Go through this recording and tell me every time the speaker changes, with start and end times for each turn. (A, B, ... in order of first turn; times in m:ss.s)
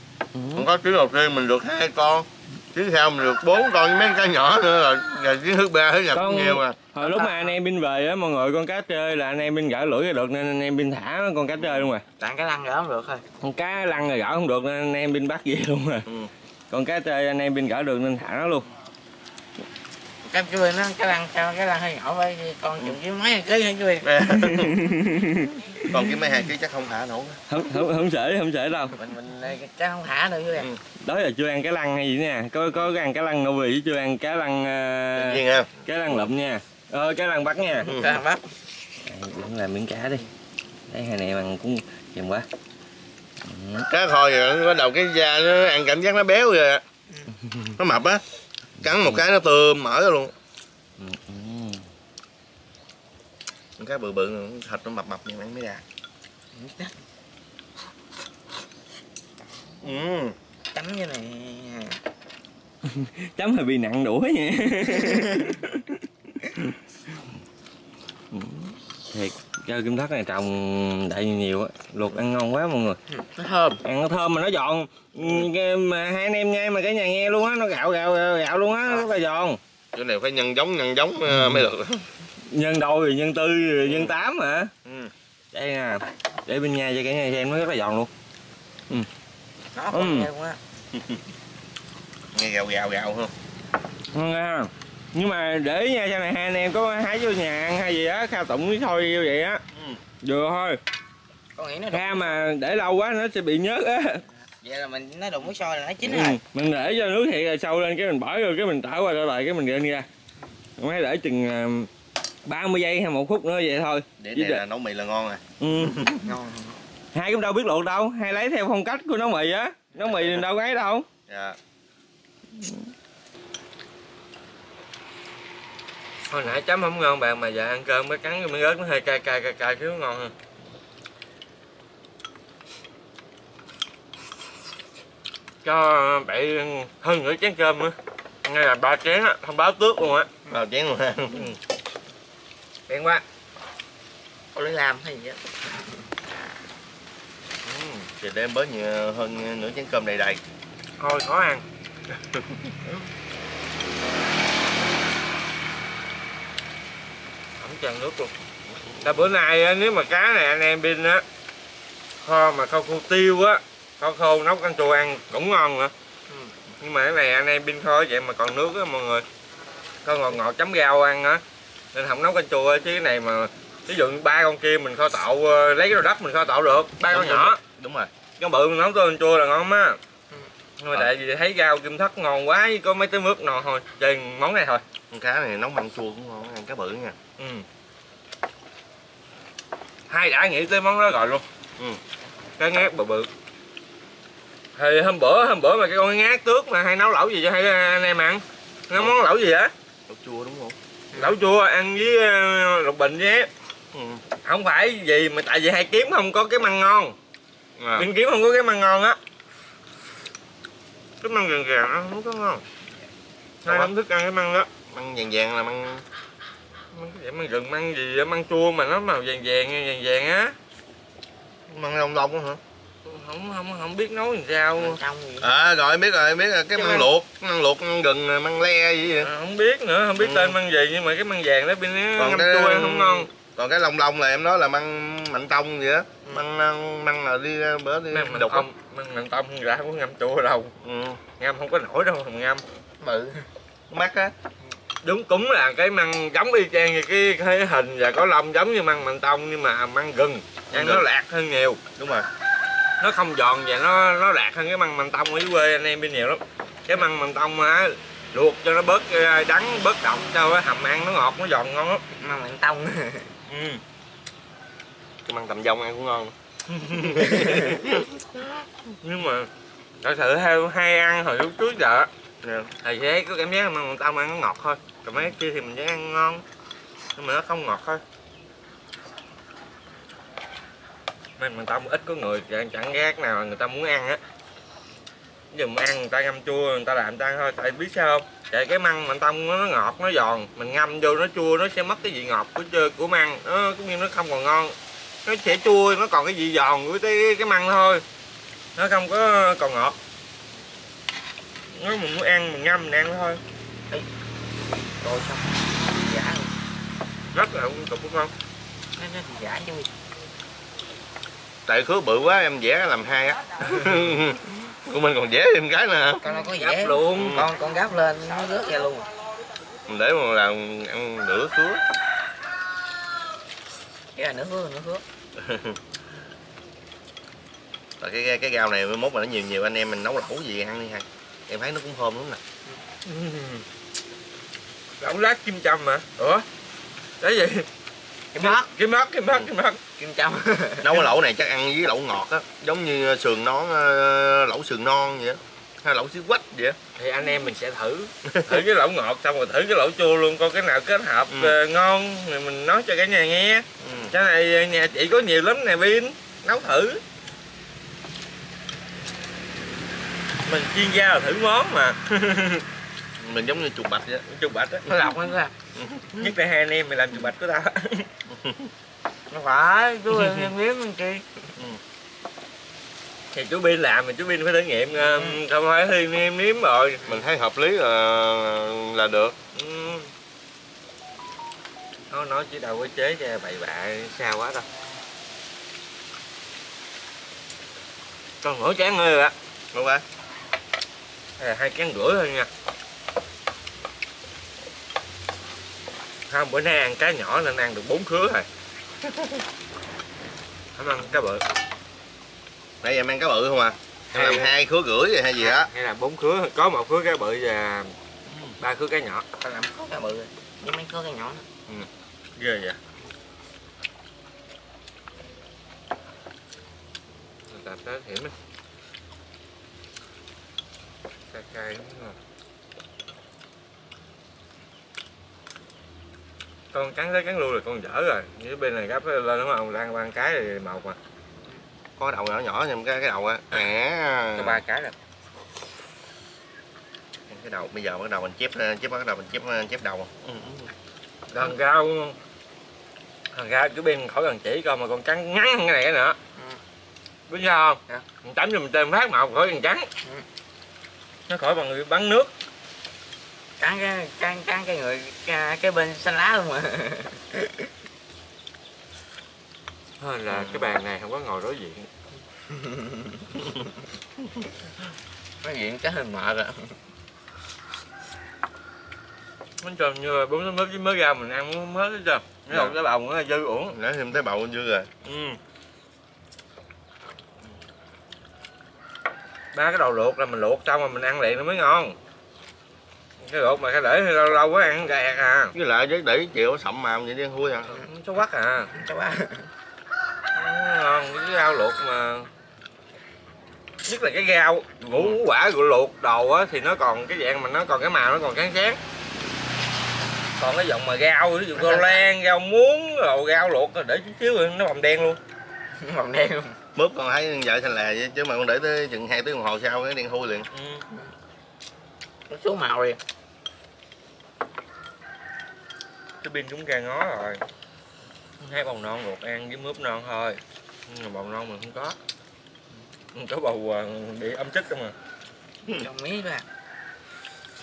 0:00.3-0:00.7 A
0:00.6-0:06.8 B
0:06.1-0:12.0 A
0:07.0-0:07.5 C
0:11.6-0:11.9 B
0:12.2-0:13.2 C
0:13.4-0:16.1 A
0:16.7-0:18.7 A
0:20.3-0:24.1 C
0:24.0-0:24.8 B
0:24.3-0:25.8 A
0:25.9-0:27.4 B
0:27.5-0:29.0 A
0:28.9-0:30.7 C
0:31.0-0:37.9 A
0:35.1-0:35.7 B
0:37.8-0:38.4 C
0:37.9-0:38.1 B
0:39.0-0:40.3 A
0:40.9-0:42.5 A
0:43.4-0:43.9 A
0:43.8-0:46.8 B
0:47.5-0:47.7 A
0:47.8-0:48.2 B
0:48.8-0:50.3 B
0:48.8-0:49.2 A
0:51.0-0:51.9 A
0:53.8-0:55.8 B
0:56.5-0:56.9 C
0:59.8-1:00.4 B
1:00.7-1:02.0 C
1:02.8-1:06.8 A
1:05.1-1:05.4 C
1:08.3-1:13.0 A
1:13.4-1:13.8 B
1:13.8-1:19.6 A
1:15.2-1:15.5 B
1:19.9-1:22.1 B
1:21.3-1:21.6 A
1:22.5-1:24.7 A
1:23.8-1:24.1 B
1:24.8-1:25.1 B
1:25.5-1:28.1 A
1:29.8-1:30.6 C
1:29.9-1:30.3 A
1:30.9-1:31.2 B
1:32.3-1:33.3 B
1:34.1-1:39.6 A
1:39.7-1:40.0 B
1:40.2-1:40.8 A
1:41.6-1:42.5 C
1:41.9-1:44.2 A
1:44.6-1:46.4 C
1:46.0-1:50.1 A
1:50.8-1:51.9 A
1:52.4-1:54.6 A
1:54.2-1:56.2 B
1:55.6-1:56.1 A
1:56.2-1:56.8 C
1:57.1-2:01.1 A
2:01.3-2:01.6 B
2:02.6-2:02.9 A
2:06.3-2:10.3 A
2:15.6-2:20.3 A
2:20.5-2:21.5 B
2:22.9-2:23.2 A
2:24.5-2:26.0 C
2:27.7-2:28.0 A
2:28.0-2:30.4 B
2:31.0-2:31.6 A
2:32.1-2:32.7 B
2:37.6-2:38.3 A
2:38.9-2:39.2 B
2:39.0-2:41.2 A
2:42.2-2:45.9 A
2:46.8-2:49.2 A
2:50.0-2:51.4 A
2:51.9-2:57.6 A
2:57.1-2:58.1 B
2:58.4-3:00.0 A
3:00.8-3:04.8 A
3:05.1-3:07.2 B
3:07.4-3:07.6 A
3:10.1-3:11.4 A
3:12.6-3:13.3 A
3:14.8-3:19.7 A
3:20.1-3:20.8 B
3:21.1-3:23.5 A
3:23.9-3:24.2 B
3:24.4-3:27.2 A
3:27.8-3:28.1 B
3:28.0-3:29.2 A
3:31.2-3:32.6 A
3:33.6-3:34.7 A
3:33.7-3:33.9 B
3:34.9-3:36.0 B
3:36.9-3:40.6 A
3:41.7-3:42.6 B
3:43.0-3:45.0 A
3:44.8-3:45.5 C
3:45.4-3:49.3 B
3:46.8-3:47.1 A
3:49.2-3:53.3 A
3:50.2-3:50.6 B
3:52.2-3:58.7 B
3:58.1-4:00.8 A
4:00.8-4:01.2 B
4:01.4-4:02.6 A
4:03.0-4:03.5 C
4:03.9-4:04.3 B
4:05.0-4:11.8 A
4:10.7-4:11.0 B
4:12.0-4:12.3 B
4:13.0-4:22.0 A
4:22.2-4:23.4 C
4:23.5-4:23.8 A
4:25.3-4:26.3 B
4:26.7-4:27.7 A
4:26.9-4:28.6 B
4:27.3-4:27.8 C
4:29.0-4:29.5 A
4:30.0-4:32.1 A
4:32.4-4:32.7 B
4:32.8-4:36.4 A
4:37.2-4:38.0 A
4:41.4-4:44.2 A
4:45.5-4:58.0 A
4:58.8-5:00.0 A
5:01.8-5:03.4 A
5:04.8-5:06.5 C
5:07.3-5:08.3 A
5:09.0-5:09.9 C
5:11.7-5:16.2 B
5:16.2-5:19.1 C
5:16.5-5:17.4 A
5:17.1-5:17.5 B
5:19.9-5:21.8 B
5:24.2-5:25.0 C
5:25.4-5:25.8 B
5:28.0-5:32.4 B
5:33.0-5:33.6 A
5:35.0-5:36.4 A
5:37.2-5:37.7 A
5:38.3-5:38.7 C
5:38.4-5:39.8 A
5:40.0-5:41.0 C
5:40.8-5:46.8 B
5:47.0-5:57.0 A
5:48.3-5:48.6 B
5:51.3-5:51.6 B
5:53.8-5:54.1 B
6:00.5-6:02.6 A
6:03.2-6:04.2 B
6:04.3-6:05.1 A
6:04.9-6:05.5 C
6:05.8-6:06.3 B
6:06.2-6:08.1 A
6:08.3-6:08.7 B
6:09.3-6:11.2 C
6:13.3-6:17.1 A
6:15.0-6:15.4 C
6:17.0-6:19.4 B
6:19.5-6:20.1 A
6:22.1-6:24.7 A
6:28.4-6:29.3 A
6:29.7-6:30.0 B
6:31.4-6:32.5 A
6:36.3-6:38.5 A
6:40.8-6:41.4 A
6:42.8-6:45.7 B
6:44.1-6:44.5 A
6:45.4-6:48.0 A
6:48.3-6:48.6 B
6:48.6-6:49.2 A
6:49.4-6:51.4 C
6:52.4-6:52.8 A
6:57.5-6:58.3 A
7:01.3-7:02.2 A
7:06.7-7:11.0 A
7:12.0-7:14.6 B
7:14.4-7:15.0 A
7:17.3-7:20.7 B
7:21.3-7:22.2 A
7:23.3-7:26.2 A
7:27.3-7:29.9 A
7:31.3-7:32.3 A
7:33.6-7:37.7 C
7:40.0-7:41.9 A
7:40.3-7:40.7 B
7:42.5-7:43.3 C
7:45.4-7:46.8 C
7:49.6-7:53.8 A
7:52.5-7:52.8 B
7:53.7-7:54.9 B
7:55.0-7:55.4 A
7:59.5-8:02.0 A
8:03.2-8:05.5 A
8:05.5-8:07.8 B
8:07.8-8:08.7 A
8:08.7-8:09.5 C
8:10.4-8:12.3 A
8:13.9-8:18.8 A
8:14.9-8:15.2 B
8:20.4-8:25.2 A
8:21.6-8:22.1 C
8:25.8-8:26.6 C
8:26.8-8:30.5 B
8:30.5-8:30.8 A
8:32.3-8:33.0 C
8:36.2-8:37.4 A
8:38.4-8:42.0 A
8:43.1-8:45.0 A
8:45.7-8:46.5 C